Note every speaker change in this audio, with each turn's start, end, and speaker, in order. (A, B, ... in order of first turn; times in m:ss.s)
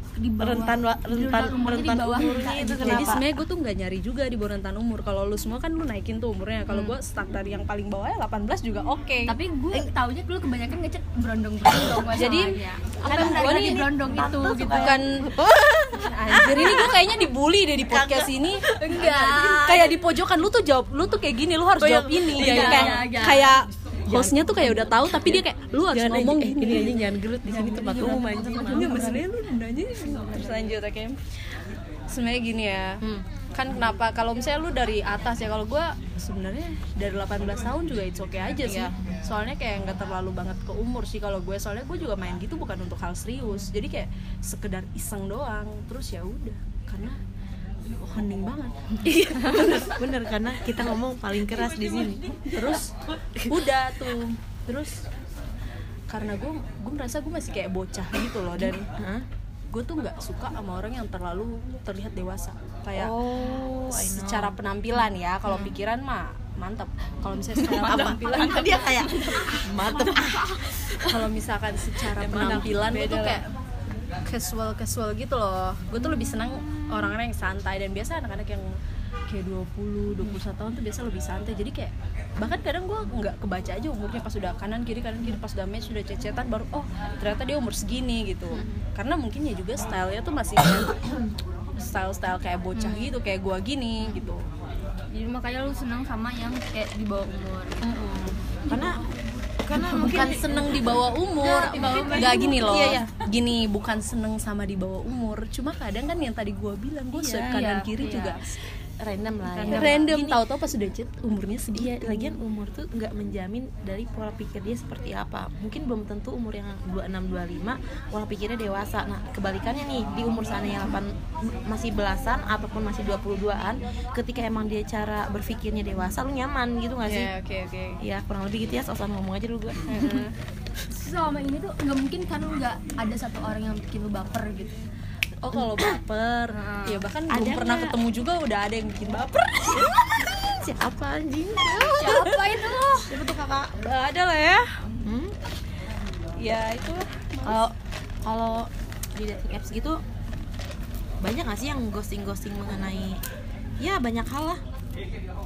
0:00.2-0:03.2 A
0:00.4-0:03.2 B
0:02.8-0:09.4 C
0:06.7-0:07.0 B
0:09.3-0:15.0 A
0:12.1-0:13.8 C
0:13.0-0:17.0 B
0:14.7-0:15.3 C
0:16.0-0:27.1 C
0:17.9-0:20.0 B
0:18.8-0:19.8 A
0:21.8-0:23.1 B
0:22.3-0:23.6 A
0:24.1-0:29.1 B
0:27.5-0:29.3 A
0:28.0-0:31.2 C
0:32.1-0:33.0 C
0:33.5-0:47.1 C
0:38.6-0:38.9 B
0:47.9-0:50.1 C
0:49.1-0:52.8 B
0:52.5-0:55.1 C
0:53.4-0:53.7 B
0:56.1-0:58.9 C
0:58.6-0:59.2 B
0:59.7-1:03.1 C
1:02.9-1:04.6 B
1:03.9-1:08.9 C
1:07.5-1:11.2 B
1:07.9-1:10.6 A
1:11.0-1:13.4 C
1:12.1-1:13.4 B
1:14.3-1:18.7 C
1:19.3-1:31.1 C
1:31.8-1:34.4 C
1:32.7-1:33.1 A
1:35.1-1:37.8 A
1:37.8-1:38.4 C
1:38.7-1:39.0 B
1:39.6-1:43.2 B
1:39.8-1:40.7 A
1:39.8-1:48.4 C
1:41.6-1:43.0 A
1:47.1-1:47.7 B
1:47.5-1:48.4 A
1:49.0-1:50.4 B
1:49.5-1:50.1 A
1:49.6-1:52.4 C
1:51.7-2:07.3 B
2:07.0-2:08.0 C
2:08.0-2:10.2 B
2:09.9-2:10.3 C
2:10.9-2:14.7 A
2:15.4-2:19.9 C
2:15.5-2:16.0 B
2:16.5-2:17.0 A
2:17.3-2:18.0 B
2:19.8-2:22.1 B
2:21.6-2:23.1 A
2:22.0-2:22.8 C
2:23.1-2:23.7 B
2:23.8-2:24.7 C
2:25.0-2:25.3 B
2:26.4-2:27.6 C
2:27.4-2:27.7 B
2:28.2-2:30.0 B
2:31.2-2:33.2 B
2:33.8-2:34.6 B